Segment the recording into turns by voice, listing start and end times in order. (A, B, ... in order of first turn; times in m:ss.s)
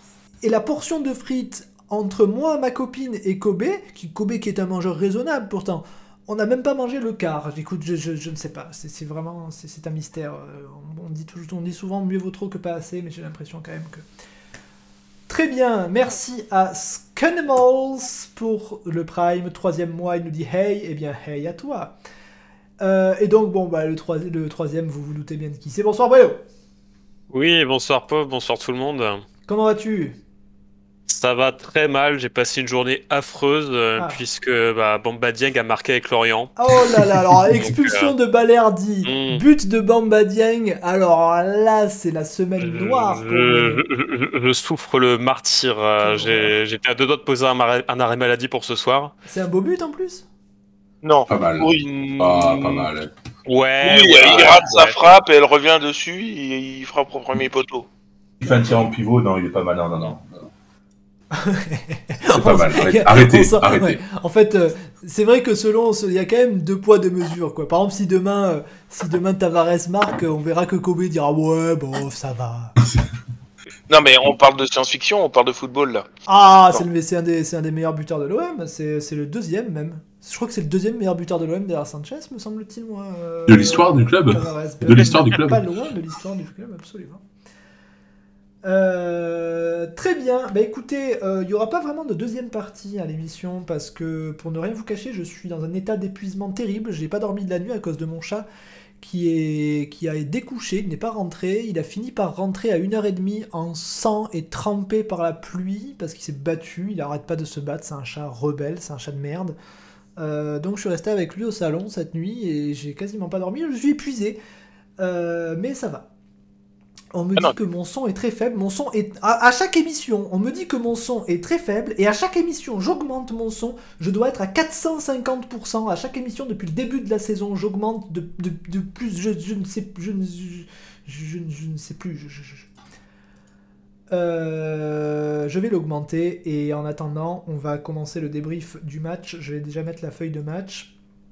0:00.4-0:14.0 A
0:15.3-0:22.0 A
0:22.8-0:26.4 A
0:27.3-0:29.2 B
0:29.5-0:30.2 A
0:31.1-0:36.6 B
0:34.0-0:34.2 A
0:36.6-0:43.8 A
0:37.6-0:38.1 B
0:39.0-0:39.4 B
0:42.6-0:49.1 B
0:46.0-0:46.6 A
0:49.3-0:50.3 A
0:51.0-0:52.0 C
0:51.3-0:53.1 D
0:51.8-0:52.9 B
0:53.5-0:55.1 B
0:53.8-0:57.9 C
0:58.4-1:00.5 D
1:01.3-1:12.8 A
1:02.2-1:04.0 D
1:13.9-1:16.1 C
1:16.3-1:27.2 A
1:23.5-1:25.7 D
1:28.6-1:38.4 A
1:39.0-1:49.6 A
1:50.2-1:54.4 A
1:55.0-1:56.1 A
1:57.1-2:12.7 A
2:14.1-2:20.9 A